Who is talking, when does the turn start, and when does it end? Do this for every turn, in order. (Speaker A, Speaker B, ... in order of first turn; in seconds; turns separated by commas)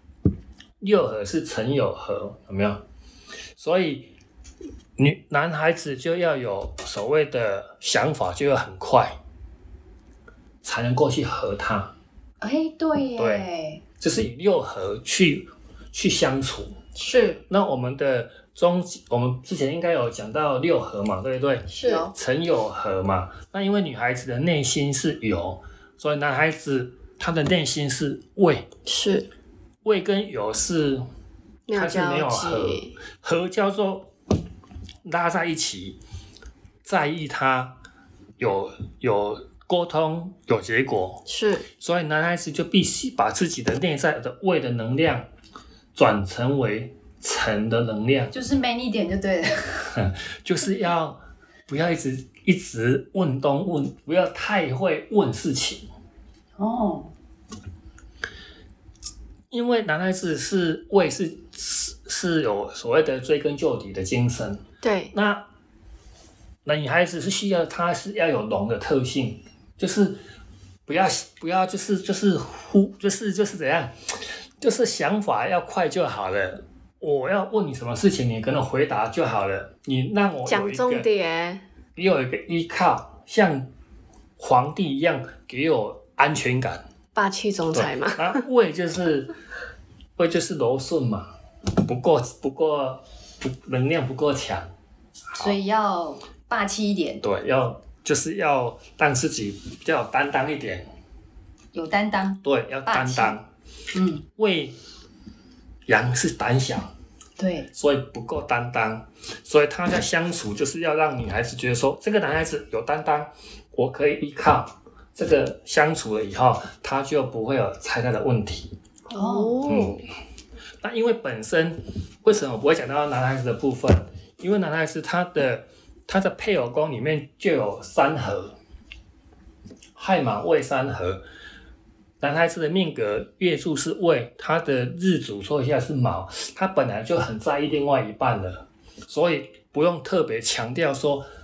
Speaker A: 0.8-2.8, Speaker A: 3.6-4.1, Speaker A: 5.0-9.2, Speaker A: 10.6-11.9, Speaker B: 12.4-13.8, Speaker A: 13.2-13.5, Speaker A: 14.0-16.8, Speaker C: 17.0-17.4, Speaker A: 17.5-28.7, Speaker C: 21.7-22.1, Speaker B: 21.8-22.1, Speaker C: 28.9-29.3, Speaker A: 29.8-31.1, Speaker C: 31.7-33.0, Speaker A: 31.7-34.1, Speaker A: 35.0-36.0, Speaker A: 36.9-37.8, Speaker A: 38.4-41.2, Speaker C: 41.3-41.7, Speaker A: 41.8-45.3, Speaker A: 46.0-48.3, Speaker B: 48.3-49.9, Speaker A: 49.9-55.9, Speaker B: 56.6-57.1, Speaker A: 59.5-65.5, Speaker C: 64.8-65.1, Speaker A: 66.7-70.2, Speaker A: 70.9-74.0, Speaker A: 74.6-81.1, Speaker C: 80.5-81.6, Speaker A: 82.0-83.7, Speaker A: 84.4-86.8, Speaker C: 87.2-88.4, Speaker A: 87.7-89.3, Speaker A: 90.2-94.7, Speaker A: 95.3-95.6, Speaker B: 95.4-97.2, Speaker A: 97.2-100.9, Speaker B: 101.7-103.4, Speaker A: 102.4-103.5, Speaker B: 103.9-104.2, Speaker A: 104.3-104.8, Speaker A: 105.9-106.9, Speaker B: 107.4-107.7, Speaker A: 107.7-118.7, Speaker C: 119.1-120.1, Speaker B: 119.1-119.7, Speaker A: 119.7-120.0, Speaker A: 120.8-128.6, Speaker A: 130.0-131.2, Speaker A: 132.2-141.2